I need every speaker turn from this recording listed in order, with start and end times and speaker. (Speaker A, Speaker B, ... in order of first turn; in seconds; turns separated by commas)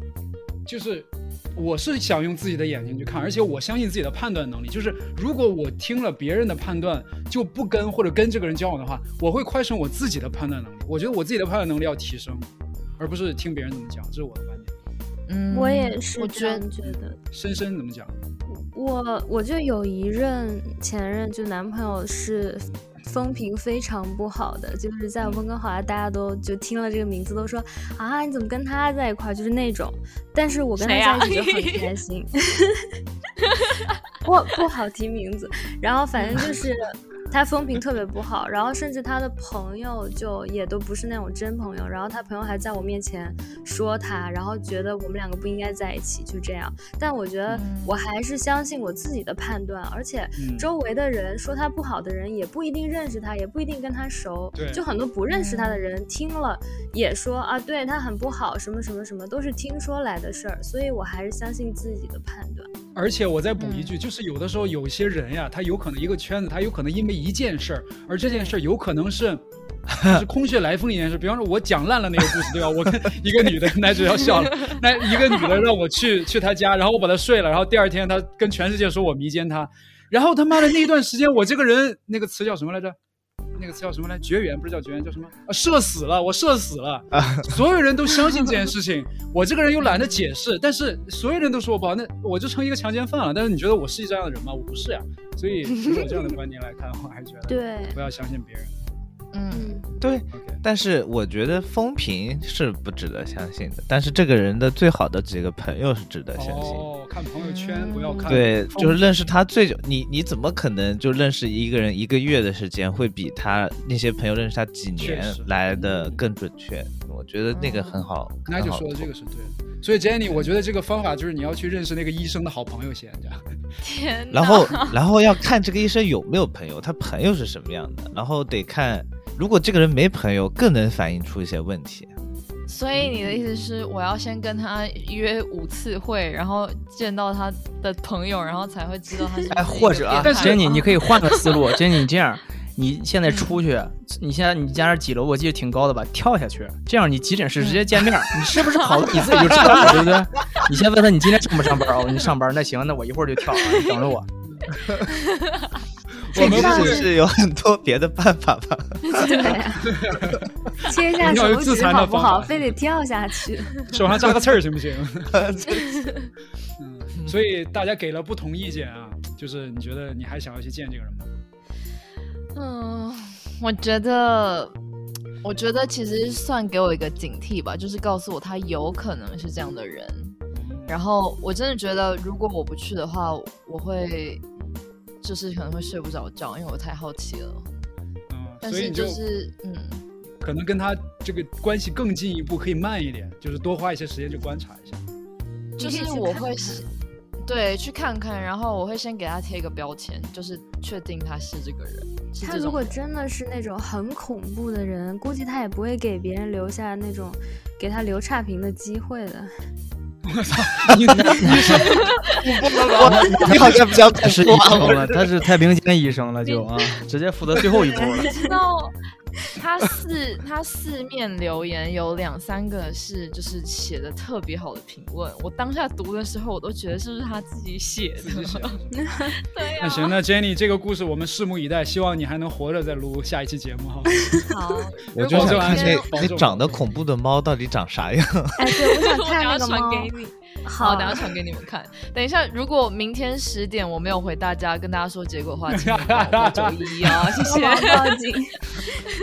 Speaker A: 0.7-12.5, Speaker A: 13.0-14.7, Speaker B: 15.3-16.7, Speaker C: 15.5-17.2, Speaker A: 16.8-18.1, Speaker C: 18.5-32.8, Speaker B: 30.8-31.9, Speaker C: 34.2-62.7, Speaker B: 36.1-36.6, Speaker A: 47.5-47.7, Speaker B: 47.5-48.0, Speaker A: 50.4-50.7, Speaker A: 54.5-54.8, Speaker B: 55.3-56.0, Speaker A: 63.0-69.4, Speaker B: 63.6-63.9, Speaker B: 68.2-68.6, Speaker A: 70.0-83.0, Speaker A: 83.5-98.7, Speaker B: 89.8-90.2, Speaker C: 97.5-98.0, Speaker B: 99.3-99.8, Speaker C: 99.5-99.8, Speaker D: 100.0-106.9, Speaker A: 100.3-100.6, Speaker A: 106.3-109.1, Speaker B: 107.4-108.3, Speaker D: 108.3-119.1, Speaker A: 115.0-116.2, Speaker B: 117.5-118.0, Speaker A: 118.5-123.4, Speaker B: 123.8-124.9, Speaker D: 124.3-132.1, Speaker B: 132.7-141.6, Speaker E: 139.5-154.3, Speaker A: 140.2-140.6, Speaker B: 143.3-143.6, Speaker B: 147.6-147.8, Speaker A: 149.5-150.0, Speaker A: 154.5-154.8, Speaker C: 156.3-157.1, Speaker D: 156.3-159.5, Speaker B: 156.4-156.7, Speaker A: 156.4-157.1, Speaker C: 159.1-160.0, Speaker A: 159.8-162.8, Speaker C: 160.8-164.0, Speaker A: 163.9-165.4, Speaker D: 165.4-166.1, Speaker A: 166.8-171.3, Speaker B: 172.5-174.8, Speaker B: 175.4-180.4, Speaker A: 180.5-181.0, Speaker B: 180.9-184.4, Speaker B: 185.2-187.7, Speaker A: 188.3-189.2, Speaker B: 188.6-190.1, Speaker A: 190.4-195.0, Speaker B: 195.8-196.9, Speaker C: 195.8-196.8, Speaker B: 197.4-203.0, Speaker C: 202.4-209.5, Speaker A: 210.3-213.7, Speaker E: 211.1-211.9, Speaker D: 212.4-215.3, Speaker E: 213.2-218.3, Speaker B: 216.4-216.7, Speaker C: 218.0-218.5, Speaker B: 218.2-219.0, Speaker B: 219.5-228.8, Speaker A: 228.2-229.0, Speaker B: 229.4-230.2, Speaker A: 229.8-234.1, Speaker B: 234.5-236.2, Speaker D: 235.1-238.5, Speaker A: 235.2-236.9, Speaker C: 238.6-241.3, Speaker B: 238.7-249.0, Speaker A: 245.7-247.4, Speaker C: 247.4-248.6